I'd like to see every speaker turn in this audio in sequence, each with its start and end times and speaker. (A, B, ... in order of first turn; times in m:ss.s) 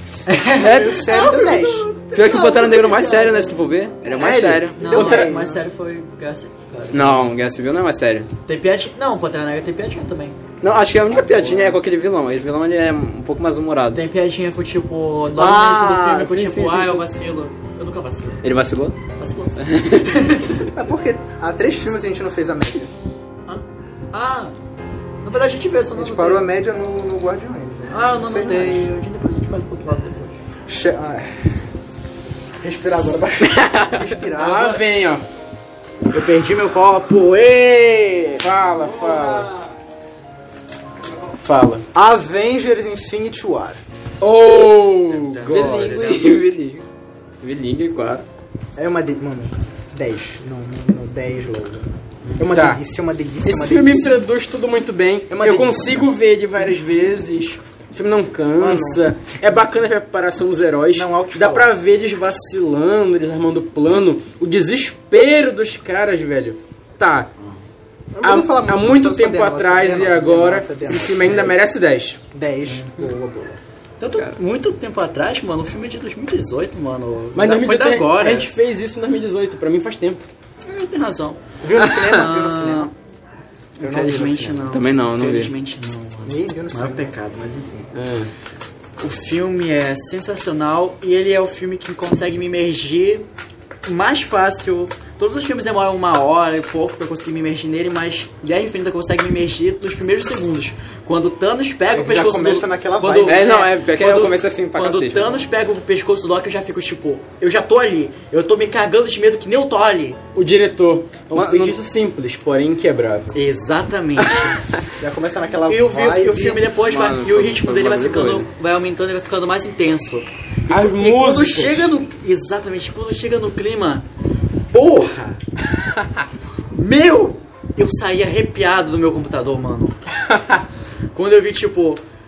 0:00.3-0:03.6 A
0:00.6-0:01.0 B
0:00.6-0:01.9 C
0:02.1-0:05.3 B
0:04.2-0:07.3 A
0:04.2-0:04.6 D
0:04.8-0:05.6 C
0:06.9-0:08.3 B
0:08.4-0:10.4 A
0:10.6-0:14.0 B
0:11.1-0:11.8 A
0:13.9-0:18.4 A
0:15.3-0:17.0 B
0:18.4-0:19.0 B
0:19.2-0:20.6 A
0:19.6-0:20.1 B
0:20.6-0:22.9 C
0:23.4-0:24.5 A
0:25.2-0:26.4 A
0:25.9-0:28.9 C
0:27.9-0:30.4 A
0:30.7-0:31.5 C
0:32.6-0:34.8 C
0:33.5-0:34.0 B
0:34.3-0:35.2 D
0:36.1-0:39.7 A
0:38.4-0:39.5 D
0:41.4-0:41.8 D
0:41.9-0:43.8 C
0:44.2-0:46.1 D
0:45.1-0:46.4 A
0:45.4-0:46.8 B
0:47.4-0:48.2 B
0:48.8-0:54.2 C
0:52.2-0:52.5 A
0:52.5-0:52.8 D
0:53.4-1:07.3 D
0:55.3-0:56.1 C
0:58.6-0:59.0 C
1:00.9-1:01.7 C
1:08.1-1:11.6 C
1:08.2-1:12.2 D
1:12.3-1:13.6 C
1:14.0-1:18.5 A
1:17.3-1:20.2 D
1:20.6-1:22.9 A
1:21.6-1:22.9 C
1:23.8-1:27.9 A
1:23.8-1:24.8 C
1:24.7-1:25.5 B
1:26.2-1:27.1 C
1:27.9-1:28.3 D
1:29.0-1:33.3 A
1:33.8-1:50.2 A
1:41.9-1:43.5 C
1:43.2-1:45.4 B
1:50.3-1:53.4 D
1:51.3-1:51.8 B
1:53.3-1:54.6 A
1:55.0-1:56.7 C
1:55.7-2:04.1 A
1:56.7-1:58.5 B
2:00.7-2:01.9 D
2:04.7-2:05.4 A
2:06.7-2:10.0 A
2:10.2-2:10.6 D
2:11.1-2:12.0 A